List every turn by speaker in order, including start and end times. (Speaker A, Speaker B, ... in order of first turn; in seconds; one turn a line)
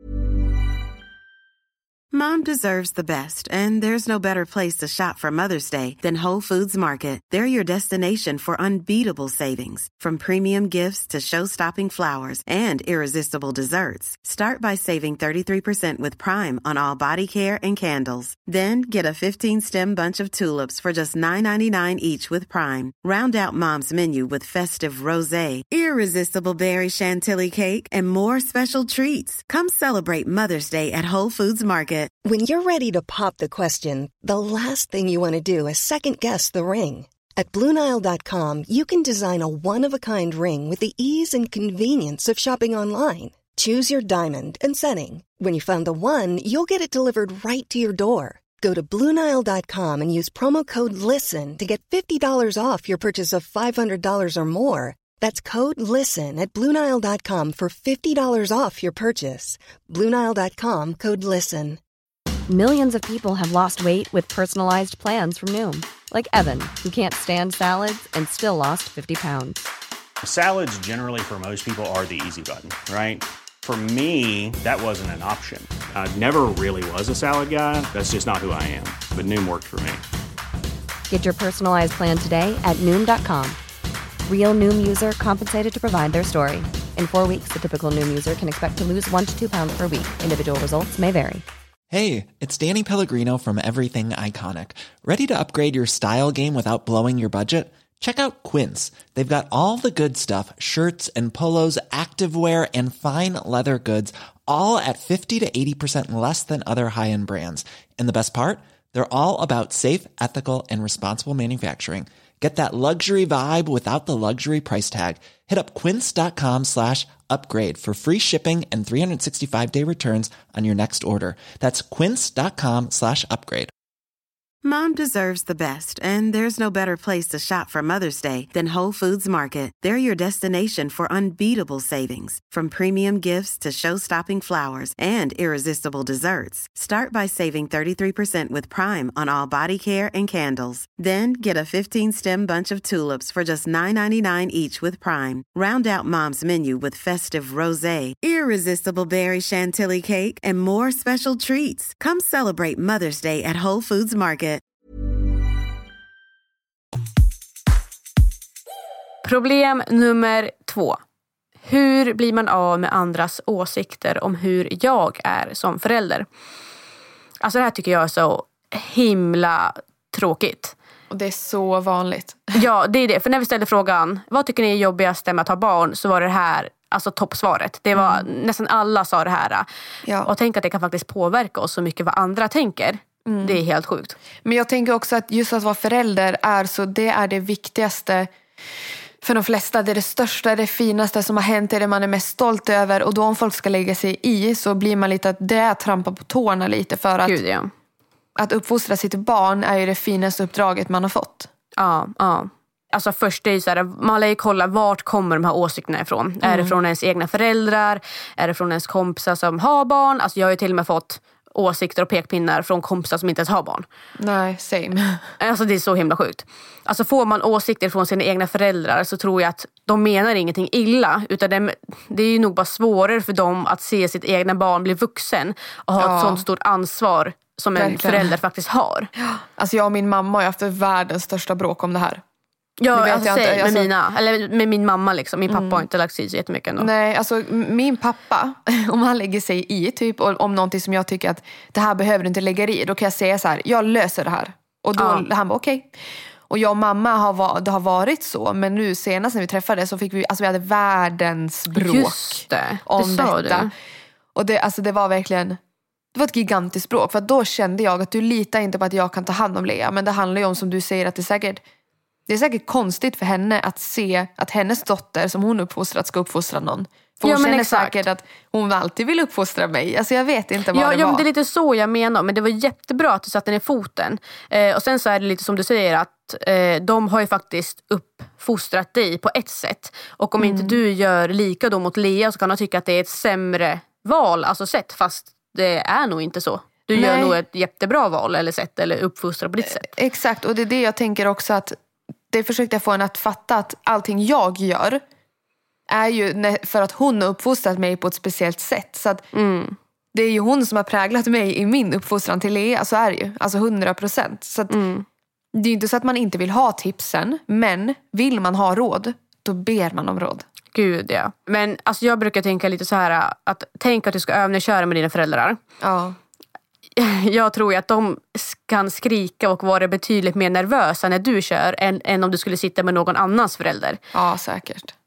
Speaker A: 2.1-32.1
Speaker B: 32.2-61.8
Speaker C: 62.5-69.6
Speaker D: 70.2-80.0
Speaker C: 81.1-83.6
Speaker C: 84.2-91.4
Speaker E: 91.9-123.7
Speaker A: 124.6-154.6
Speaker F: 159.2-161.0
Speaker F: 161.6-166.3
Speaker F: 167.4-170.7
Speaker G: 171.1-172.5
Speaker F: 172.5-179.7
Speaker G: 177.9-178.2
Speaker F: 180.2-184.2
Speaker G: 183.2-183.6
Speaker G: 184.4-188.3
Speaker G: 189.2-197.4
Speaker F: 197.2-197.7
Speaker G: 198.4-201.5
Speaker F: 201.8-213.8
Speaker G: 206.4-206.7
Speaker G: 214.2-215.2
Speaker F: 215.4-229.1
Speaker G: 226.0-226.4
Speaker G: 227.8-228.3
Speaker G: 229.2-232.2
Speaker F: 232.8-236.9
Speaker G: 232.9-233.9
Speaker G: 235.5-235.8
Speaker G: 236.8-245.9
Speaker F: 245.0-245.2
Speaker G: 246.5-253.7
Speaker F: 251.7-253.7
Speaker G: 254.3-255.6
Speaker G: 256.1-261.6
Speaker G: 262.3-271.2
Speaker F: 267.2-268.0
Speaker F: 270.7-289.9
Speaker G: 280.4-280.8
Speaker G: 286.9-287.4
Speaker G: 289.7-291.8
Speaker G: 292.3-295.0
Speaker G: 295.9-299.3
Speaker F: 299.3-299.8
Speaker G: 300.1-304.8
Speaker F: 304.7-305.1
Speaker G: 305.5-310.4
Speaker F: 310.7-315.6
Speaker G: 315.8-316.2
Speaker F: 317.0-324.0
Speaker G: 324.1-324.9